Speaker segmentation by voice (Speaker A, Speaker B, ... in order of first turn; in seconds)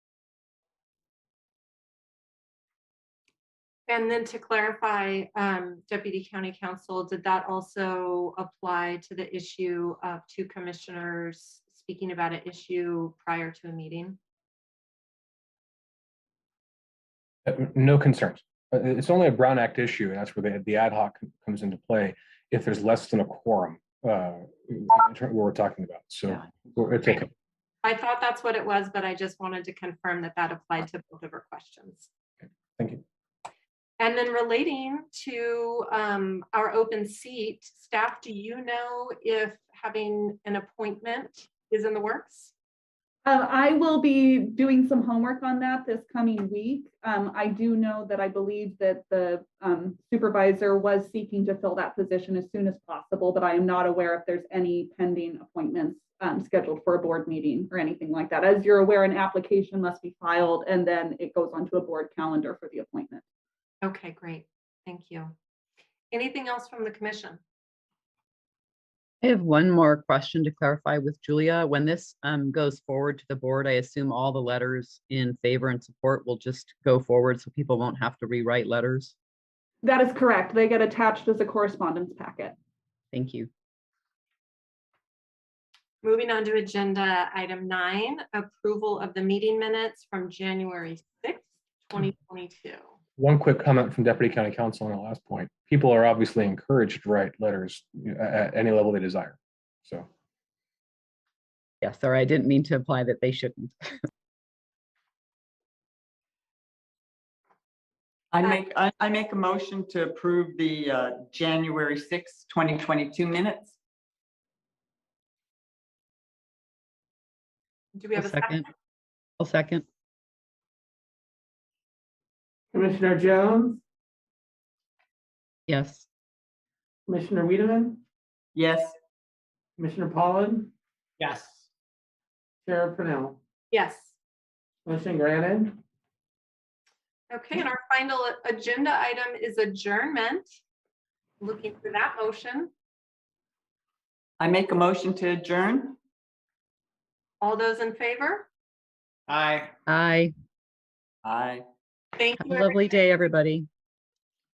Speaker A: 3.9-14.2, 27.8-32.1, 34.0-42.5, 63.8-65.3, 66.1-67.4, 86.0-92.9, 118.0-118.6, 133.7-134.2, 137.3-140.5, 141.4-142.7, 147.4-148.5, 152.2-152.9
Speaker B: 17.5-27.3, 32.8-33.0, 93.2-100.1
Speaker C: 43.2-63.2, 79.8-82.5
Speaker D: 69.2-79.2, 83.1-83.5, 101.8-103.9, 118.2-118.7, 119.4-119.8, 125.7-126.1, 149.9-150.3, 152.4-153.7
Speaker E: 108.3-113.8, 128.6-129.0, 144.4-146.0, 151.2-151.7
Speaker F: 122.7-123.8, 127.1-128.0, 129.8-131.6, 132.7-133.4, 134.9-135.8, 149.3-149.7